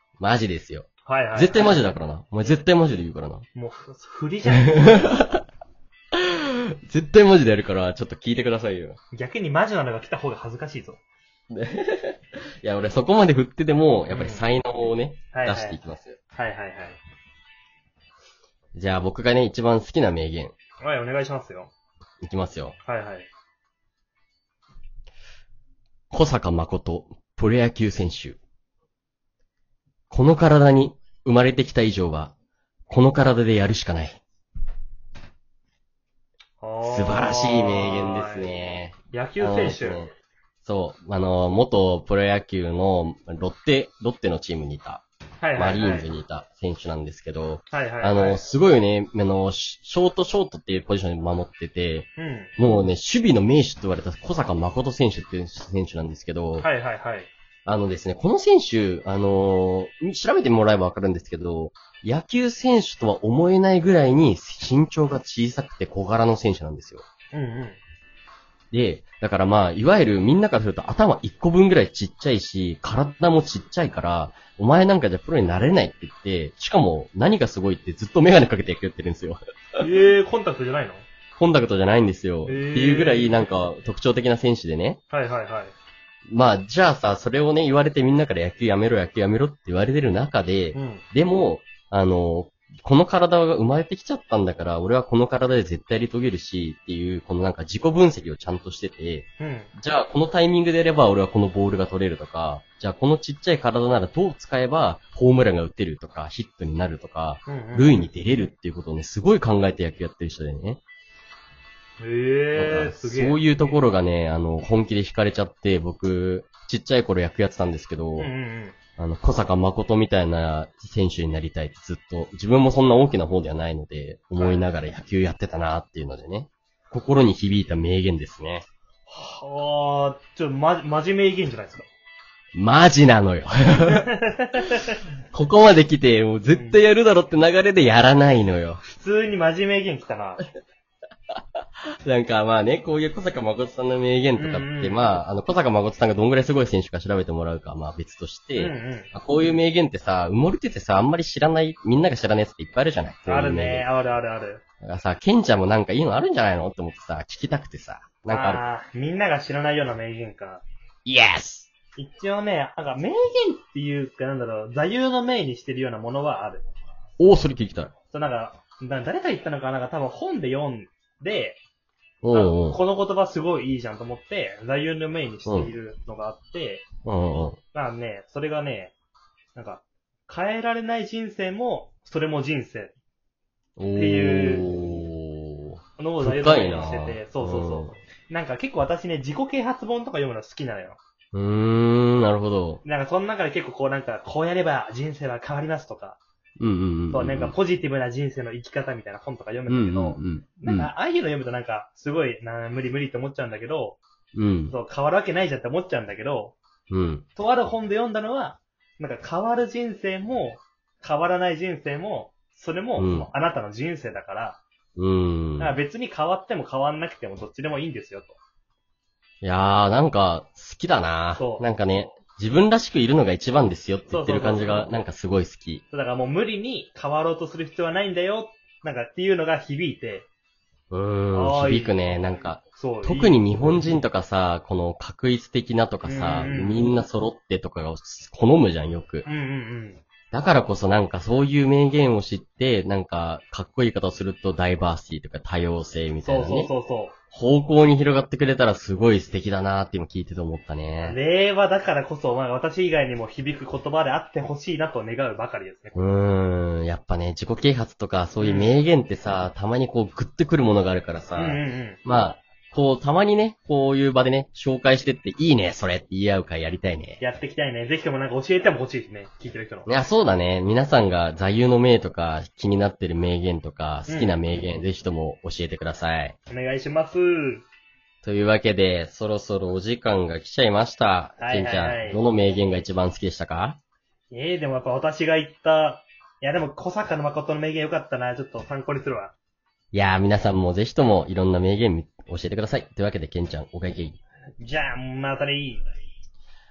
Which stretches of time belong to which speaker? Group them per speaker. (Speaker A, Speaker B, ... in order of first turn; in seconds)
Speaker A: 0.2-3.5, 4.7-5.4, 6.1-9.0, 11.5-16.2, 18.8-20.5, 22.2-22.8, 26.1-28.4, 30.1-32.3, 32.9-34.2, 36.9-40.1, 40.6-45.0, 45.6-56.7, 57.7-67.0, 68.7-79.8, 81.4-85.0, 86.3-110.8, 112.5-118.3, 119.0-128.7, 132.6-134.1, 135.3-138.8, 142.0-153.9, 154.8-158.6, 161.1-161.7, 167.2-167.9, 172.2-172.8, 175.5-175.7, 177.1-177.6, 183.8-188.0, 191.3-192.8, 196.6-197.6, 199.7-200.9, 204.3-204.8, 206.9-207.2, 213.0-213.3, 215.0-215.8, 219.4-225.8, 230.9-239.3, 240.3-246.7, 247.3-251.2, 255.9-267.2, 269.9-276.4, 278.2-283.8, 289.9-294.2
Speaker B: 1.1-1.8, 3.5-5.1, 9.1-11.0, 14.1-14.5, 15.3-15.8, 16.3-17.0, 20.8-21.7, 22.9-23.3, 36.6-38.5, 39.1-40.1, 45.4-46.1, 47.7-48.4, 52.2-52.5, 56.6-57.3, 67.3-67.8, 79.8-81.0, 82.5-83.4, 85.1-85.7, 90.7-91.0, 99.4-99.7, 107.5-108.1, 112.0-113.5, 118.2-118.8, 124.4-124.7, 129.1-131.9, 133.9-135.0, 136.5-136.8, 138.8-140.4, 144.4-145.0, 148.6-149.1, 153.3-154.6, 158.3-160.6, 162.0-166.6, 168.1-171.6, 172.3-176.8, 177.7-178.9, 179.6-182.9, 183.9-184.8, 186.0-191.0, 192.8-196.2, 197.1-204.0, 204.7-206.6, 207.4-214.6, 215.6-218.4, 221.4-221.7, 224.1-225.0, 225.9-230.3, 231.3-232.0, 232.8-234.0, 236.1-236.8, 239.2-240.0, 246.2-247.2, 251.0-256.0, 258.4-258.7, 261.4-262.0, 267.2-269.9, 274.1-274.4, 276.5-277.6, 281.4-282.2, 284.3-289.4, 294.6-295.8